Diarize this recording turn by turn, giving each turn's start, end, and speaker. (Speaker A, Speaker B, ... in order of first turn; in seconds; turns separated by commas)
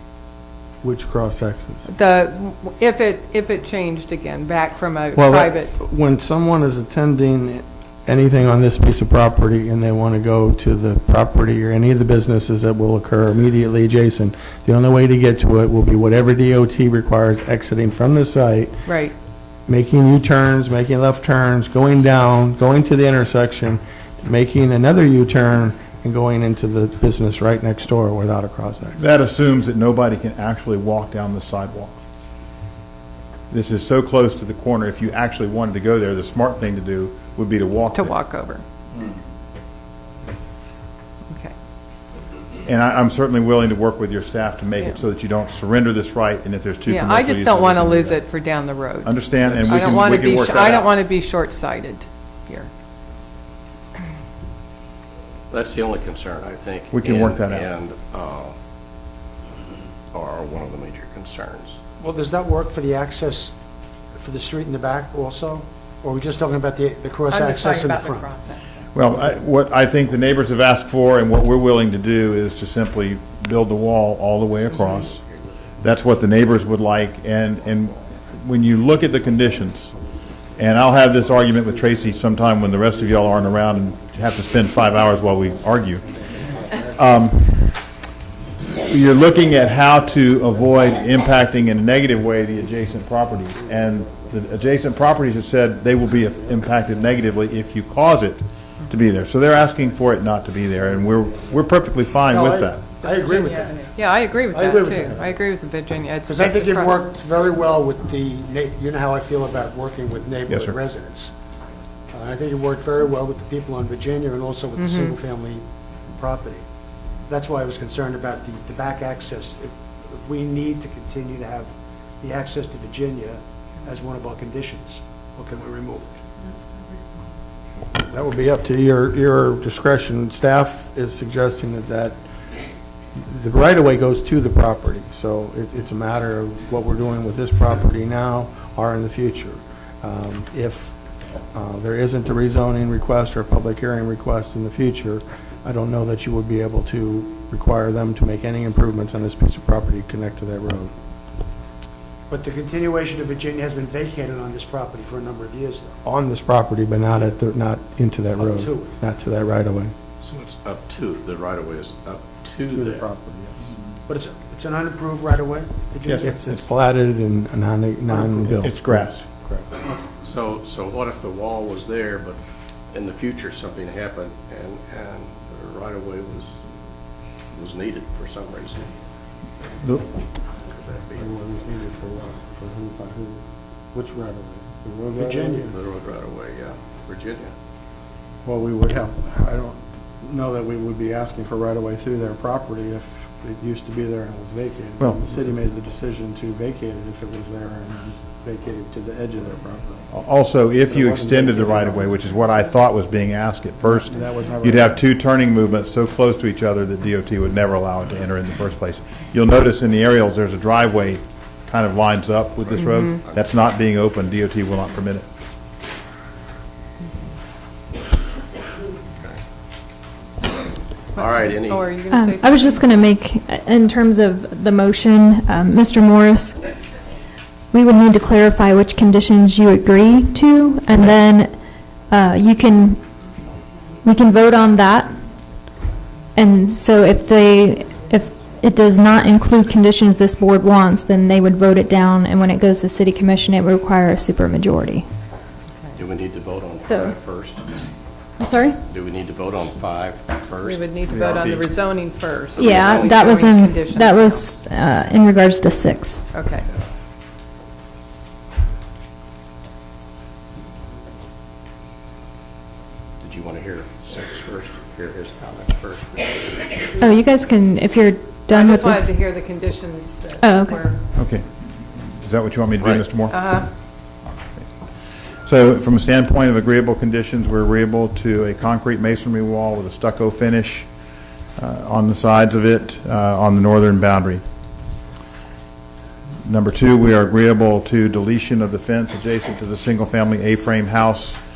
Speaker A: 0.8-1.8, Speaker B: 1.9-5.7, Speaker A: 5.1-18.8, Speaker B: 18.9-19.1, Speaker A: 19.7-29.0, Speaker C: 29.0-32.0, Speaker C: 33.5-38.2, Speaker B: 37.9-38.6, Speaker C: 42.6-48.2, Speaker B: 46.9-52.7, Speaker C: 49.0-50.9, Speaker D: 55.5-58.5, Speaker C: 56.9-57.7, Speaker D: 60.1-61.8, Speaker E: 62.0-63.5, Speaker E: 64.1-68.3, Speaker B: 67.3-68.9, Speaker C: 68.9-75.2, Speaker D: 74.5-75.7, Speaker C: 75.8-79.9, Speaker C: 80.6-86.2, Speaker C: 86.8-87.8, Speaker C: 88.8-103.0, Speaker E: 102.3-104.0, Speaker B: 103.0-107.0, Speaker E: 104.5-105.3, Speaker E: 106.2-111.3, Speaker C: 110.5-110.8, Speaker E: 112.1-116.6, Speaker B: 114.8-115.2, Speaker E: 117.3-126.2, Speaker A: 127.9-132.2, Speaker A: 133.2-140.9, Speaker A: 141.5-150.9, Speaker E: 152.3-156.0, Speaker A: 156.0-159.9, Speaker E: 158.3-158.9, Speaker D: 160.2-163.0, Speaker A: 162.7-163.6, Speaker E: 164.1-166.3, Speaker C: 166.1-166.6, Speaker A: 166.2-169.7, Speaker C: 168.2-169.2, Speaker D: 170.2-172.4, Speaker D: 172.9-176.6, Speaker D: 177.5-178.9, Speaker D: 180.7-181.3, Speaker A: 181.2-183.4, Speaker A: 183.9-185.7, Speaker E: 185.1-185.7, Speaker D: 185.7-187.5, Speaker A: 188.4-200.0, Speaker C: 200.1-215.2, Speaker A: 200.9-202.1, Speaker A: 203.8-205.0, Speaker D: 221.1-222.0, Speaker B: 221.2-222.9, Speaker F: 222.1-226.6, Speaker F: 227.7-231.5, Speaker F: 232.1-233.0, Speaker F: 234.0-235.1, Speaker F: 236.3-245.1, Speaker D: 245.9-247.6, Speaker F: 246.8-247.1, Speaker F: 248.4-248.8, Speaker D: 248.9-250.9, Speaker B: 250.6-254.5, Speaker C: 251.1-251.7, Speaker D: 252.5-253.4, Speaker F: 252.6-256.2, Speaker B: 256.3-256.7, Speaker D: 263.2-266.9, Speaker F: 267.0-269.1, Speaker B: 268.5-271.0, Speaker F: 270.4-270.9, Speaker C: 271.1-271.4, Speaker C: 272.0-273.4, Speaker D: 272.8-273.1, Speaker B: 273.3-273.7, Speaker C: 275.4-280.9, Speaker C: 281.6-284.4, Speaker C: 286.4-291.4